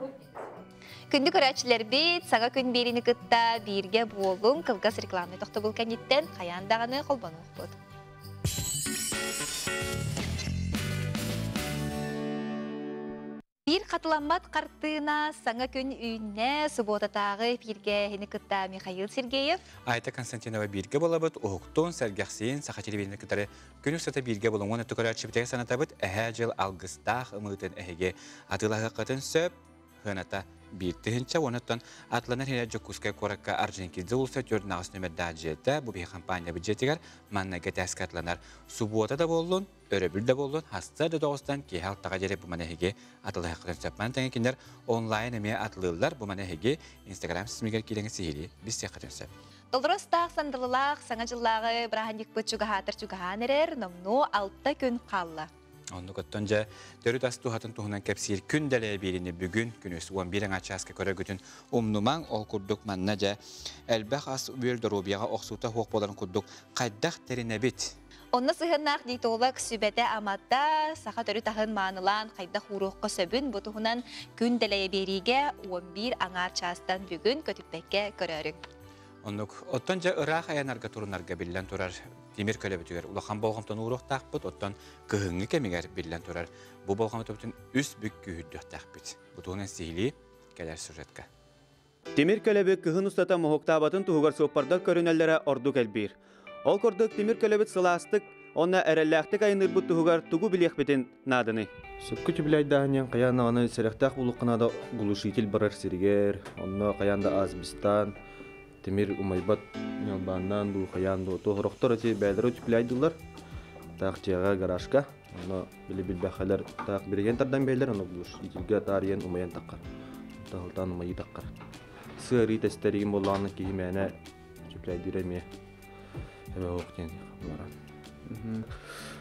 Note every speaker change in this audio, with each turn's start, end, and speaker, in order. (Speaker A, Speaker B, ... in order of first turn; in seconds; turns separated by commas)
Speaker A: 1.1-7.8, Speaker A: 13.7-19.6, Speaker B: 19.9-49.3, Speaker A: 49.7-55.5, Speaker B: 55.9-68.0, Speaker A: 68.3-78.6, Speaker B: 79.2-91.3, Speaker C: 92.2-101.7, Speaker D: 102.0-108.2, Speaker D: 108.8-113.2, Speaker D: 114.0-119.8, Speaker D: 120.5-121.5, Speaker D: 122.2-124.2, Speaker D: 124.7-125.5, Speaker D: 126.5-127.7